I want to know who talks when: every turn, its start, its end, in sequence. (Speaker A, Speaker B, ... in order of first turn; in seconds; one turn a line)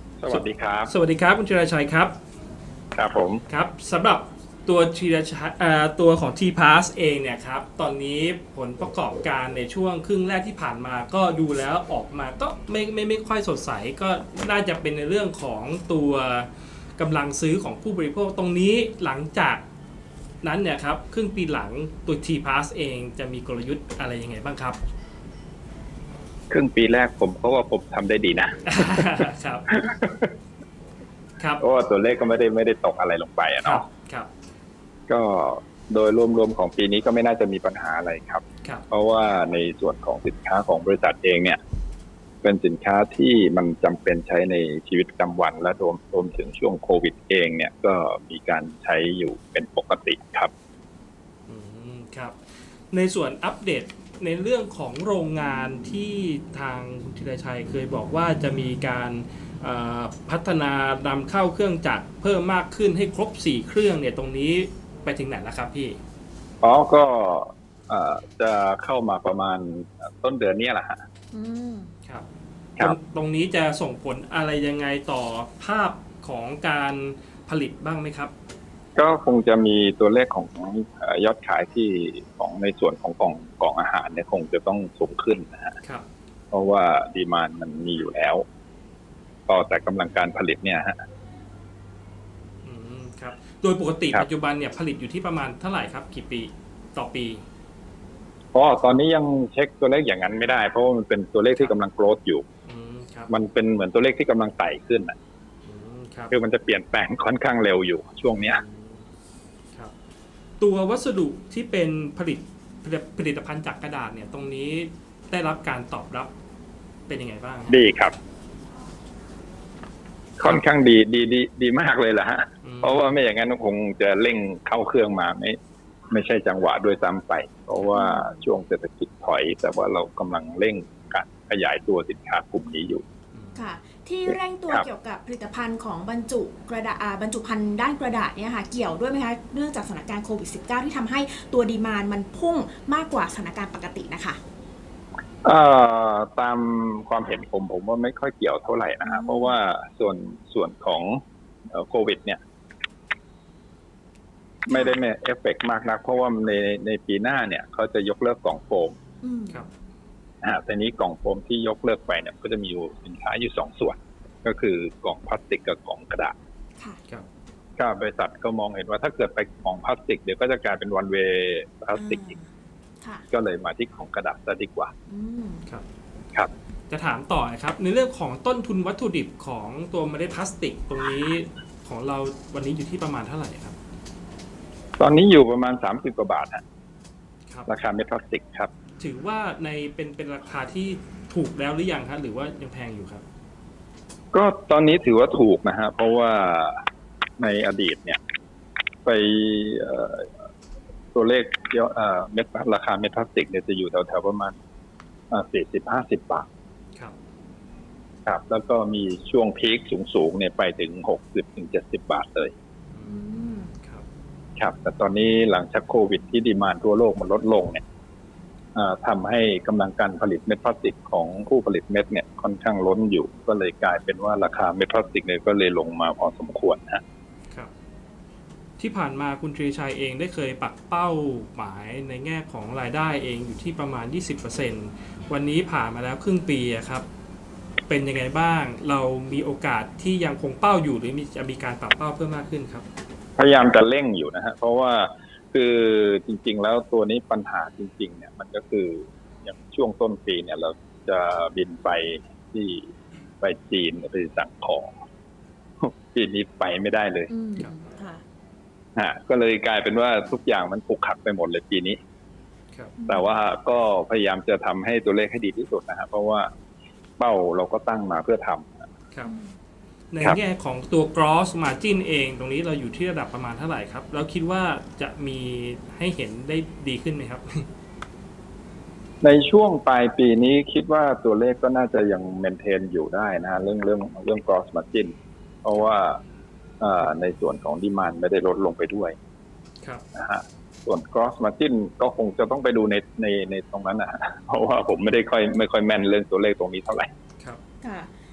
Speaker A: 0.2-0.9
Speaker B: 0.3-2.1
Speaker A: 3.0-3.4
Speaker B: 3.5-19.6
Speaker B: 20.4-24.8
Speaker A: 26.5-30.3
Speaker B: 28.7-29.7
Speaker A: 31.6-33.8
Speaker B: 33.6-34.3
Speaker A: 35.1-41.6
Speaker A: 42.4-50.5
Speaker B: 51.5-66.0
Speaker A: 66.6-71.0
Speaker C: 71.3-71.9
Speaker B: 72.8-78.3
Speaker A: 79.0-85.8
Speaker A: 86.5-88.4
Speaker A: 89.5-91.0
Speaker B: 92.6-97.4
Speaker A: 98.5-102.5
Speaker B: 102.7-103.3
Speaker A: 103.3-105.2
Speaker B: 105.7-106.3
Speaker A: 106.3-108.6
Speaker B: 108.5-109.1
Speaker B: 110.6-116.3
Speaker B: 117.1-117.8
Speaker A: 117.7-118.2
Speaker A: 120.4-125.6
Speaker B: 122.6-123.2
Speaker A: 126.1-133.0
Speaker C: 127.9-128.4
Speaker B: 133.3-133.6
Speaker C: 133.6-144.4
Speaker A: 134.3-134.9
Speaker A: 145.4-152.4
Speaker C: 149.0-149.6
Speaker A: 154.7-159.0
Speaker C: 154.7-155.0
Speaker C: 159.2-159.7
Speaker A: 160.4-166.3
Speaker A: 167.8-172.3
Speaker C: 171.9-172.5
Speaker A: 173.3-174.9
Speaker C: 175.1-175.7
Speaker B: 176.9-183.8
Speaker A: 185.0-186.6
Speaker A: 187.7-188.7
Speaker B: 189.0-193.2
Speaker A: 194.3-196.8
Speaker A: 197.4-198.2
Speaker A: 199.1-200.3
Speaker A: 201.1-204.6
Speaker A: 205.3-206.5
Speaker A: 208.3-212.5
Speaker B: 212.9-214.0
Speaker C: 213.0-213.7
Speaker A: 214.6-217.8
Speaker A: 218.8-227.0
Speaker B: 228.8-237.1
Speaker B: 237.9-242.8
Speaker A: 243.4-254.9
Speaker A: 255.8-257.3
Speaker C: 257.3-258.2
Speaker A: 259.0-262.0
Speaker C: 263.0-263.3
Speaker A: 263.1-266.5
Speaker A: 267.2-268.9
Speaker C: 269.2-269.6
Speaker B: 270.1-277.7
Speaker A: 279.2-286.2
Speaker A: 286.8-289.2
Speaker A: 290.1-297.1
Speaker C: 297.8-298.1